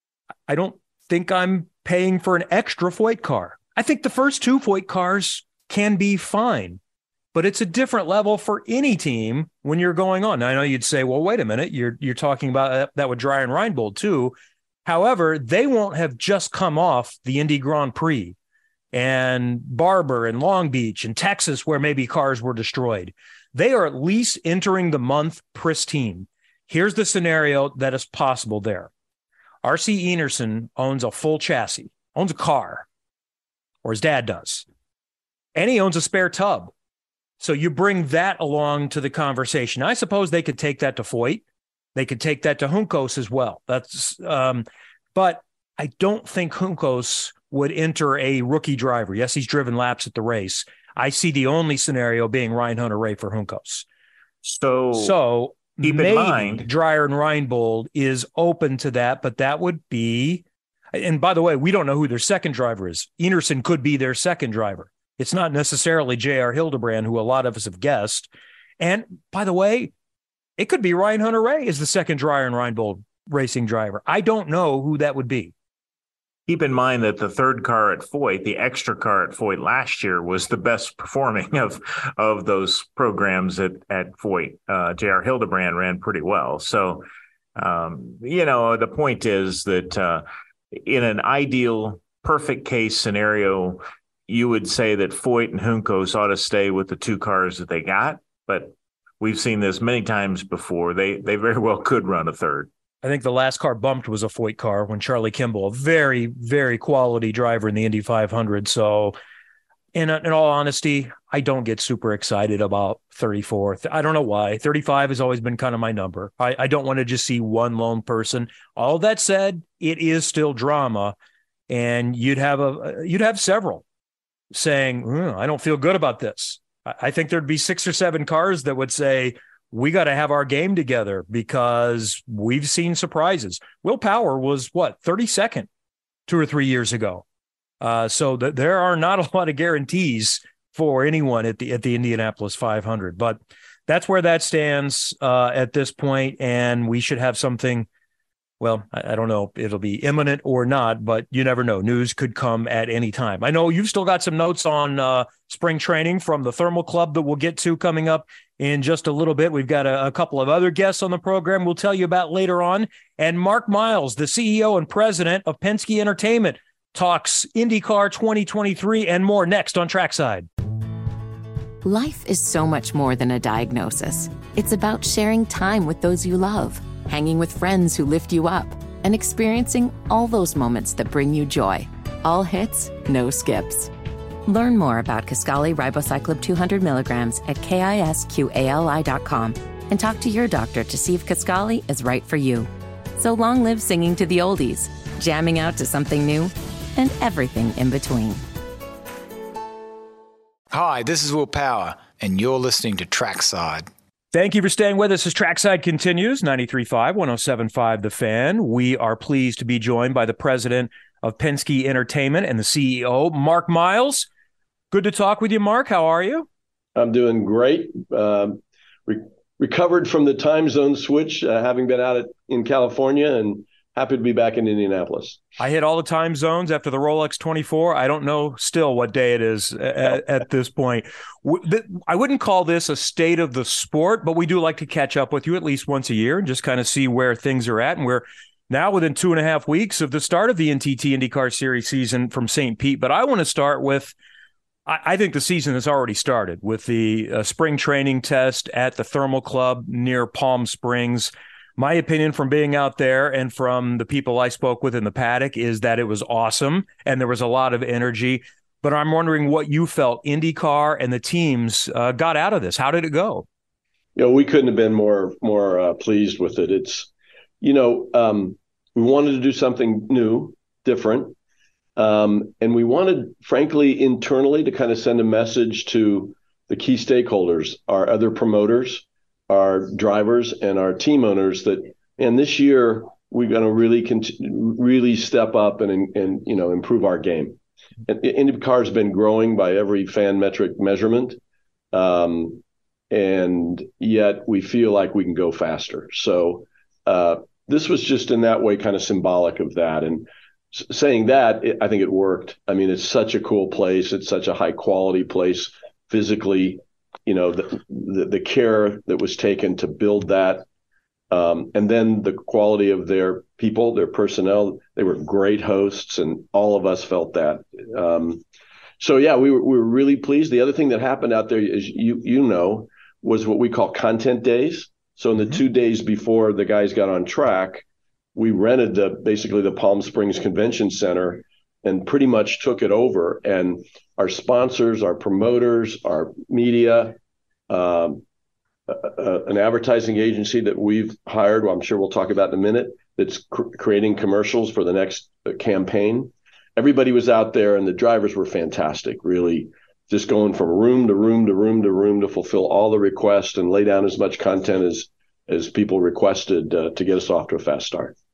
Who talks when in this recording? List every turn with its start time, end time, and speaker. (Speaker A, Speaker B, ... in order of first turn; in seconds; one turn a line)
Speaker A: 0.5-6.8
Speaker A: 7.3-14.3
Speaker A: 14.8-18.4
Speaker A: 18.9-28.9
Speaker A: 29.6-32.9
Speaker A: 33.8-34.6
Speaker A: 35.5-36.7
Speaker A: 37.4-41.4
Speaker A: 42.0-53.9
Speaker B: 54.4-55.2
Speaker A: 54.9-60.4
Speaker B: 55.8-56.7
Speaker A: 60.9-69.9
Speaker A: 70.6-75.5
Speaker B: 76.5-87.0
Speaker B: 87.6-102.7
Speaker A: 103.0-109.2
Speaker A: 109.9-121.2
Speaker A: 121.7-123.8
Speaker A: 124.5-135.7
Speaker A: 136.3-137.2
Speaker A: 137.8-147.9
Speaker A: 148.6-170.5
Speaker C: 171.8-183.9
Speaker C: 184.5-198.4
Speaker D: 200.7-203.9
Speaker A: 204.3-214.3
Speaker A: 214.9-216.5
Speaker E: 216.9-225.4
Speaker A: 225.6-244.1
Speaker A: 244.9-263.4
Speaker E: 264.2-267.1
Speaker E: 267.6-271.4
Speaker E: 272.0-291.4
Speaker E: 291.9-310.7
Speaker E: 311.3-318.4
Speaker E: 319.0-337.2
Speaker E: 337.7-338.2
Speaker E: 338.9-358.1